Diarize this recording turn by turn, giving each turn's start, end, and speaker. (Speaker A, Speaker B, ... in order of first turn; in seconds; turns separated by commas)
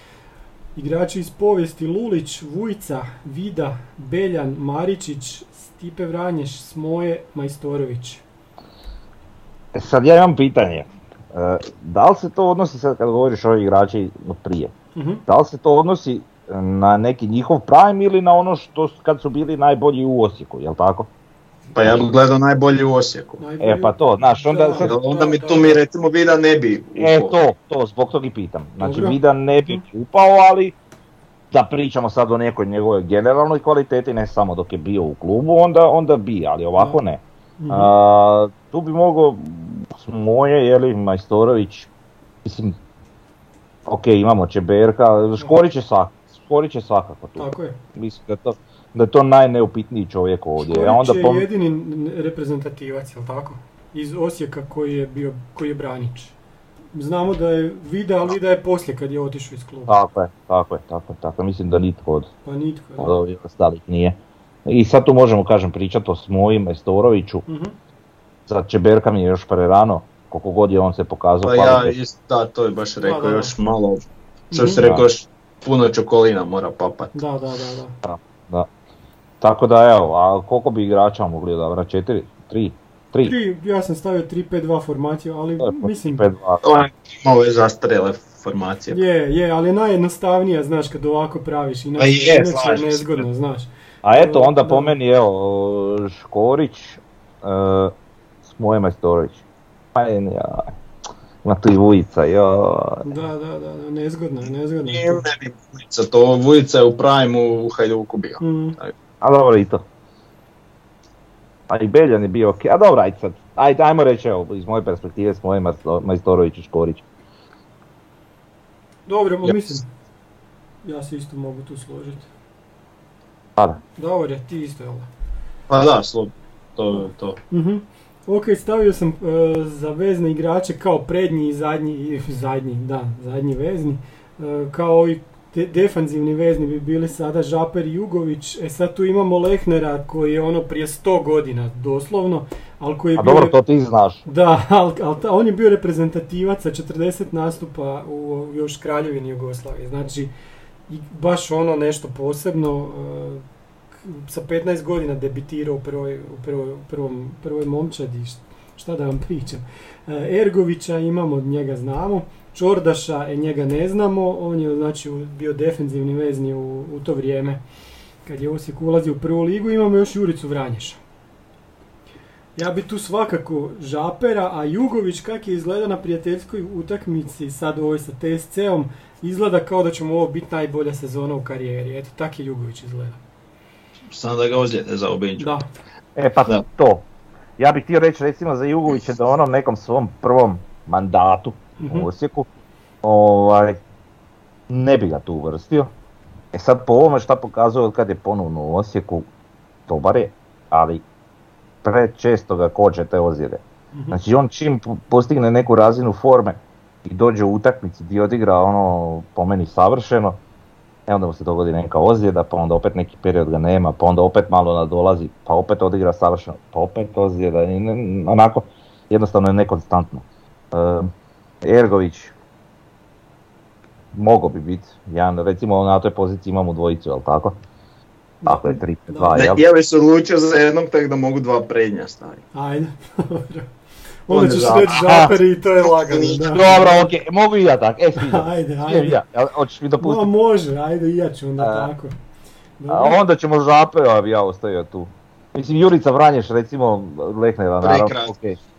Speaker A: 0.8-8.2, Speaker B: 9.7-14.7, Speaker A: 14.9-15.2, Speaker B: 15.3-21.1, Speaker C: 21.7-23.4, Speaker A: 23.4-25.8, Speaker B: 23.6-24.9, Speaker C: 24.8-27.4, Speaker B: 27.0-30.8, Speaker A: 28.8-29.8, Speaker B: 31.5-41.9, Speaker A: 37.6-37.9, Speaker B: 42.4-42.8, Speaker B: 43.9-51.5, Speaker A: 47.4-47.8, Speaker A: 50.6-56.4, Speaker A: 56.9-60.0, Speaker B: 59.9-62.3, Speaker A: 62.5-63.1, Speaker B: 63.0-67.5, Speaker A: 67.5-67.8, Speaker B: 68.5-72.0, Speaker C: 71.5-74.0, Speaker A: 73.0-73.5, Speaker A: 74.5-74.8, Speaker C: 74.5-77.1, Speaker A: 77.1-78.0, Speaker B: 78.0-78.7, Speaker B: 79.4-83.3, Speaker A: 83.2-86.3, Speaker B: 85.6-86.6, Speaker C: 86.6-89.0, Speaker A: 88.9-94.9, Speaker C: 92.0-93.2, Speaker B: 94.0-99.4, Speaker B: 100.0-100.7, Speaker B: 101.4-103.1, Speaker A: 103.0-105.2, Speaker C: 104.8-108.9, Speaker A: 108.4-108.8, Speaker B: 109.2-109.8, Speaker B: 111.7-117.0, Speaker A: 119.1-119.9, Speaker A: 120.8-122.3, Speaker A: 124.0-125.1, Speaker C: 125.7-127.4, Speaker A: 127.5-143.6, Speaker B: 143.2-144.2, Speaker A: 144.3-150.3, Speaker A: 150.9-153.4, Speaker A: 154.0-167.6, Speaker A: 168.2-171.0, Speaker A: 172.6-183.2, Speaker C: 184.1-185.5, Speaker A: 185.4-185.7, Speaker B: 186.2-192.5, Speaker A: 191.8-192.1, Speaker B: 193.0-193.8, Speaker B: 194.7-195.9, Speaker B: 196.5-199.3, Speaker B: 199.9-201.0, Speaker B: 201.8-210.4, Speaker A: 203.9-204.2, Speaker B: 211.1-221.1, Speaker B: 221.6-222.3, Speaker B: 224.1-227.6, Speaker A: 228.4-229.4, Speaker B: 228.5-229.6, Speaker C: 229.3-232.4, Speaker A: 232.5-233.7, Speaker A: 234.3-236.9, Speaker C: 234.3-235.3, Speaker B: 235.0-235.3, Speaker C: 235.8-236.5, Speaker B: 236.4-240.3, Speaker A: 238.2-239.2, Speaker A: 240.0-242.1, Speaker B: 241.6-241.9, Speaker A: 242.8-243.2, Speaker B: 242.9-248.6, Speaker C: 247.8-248.3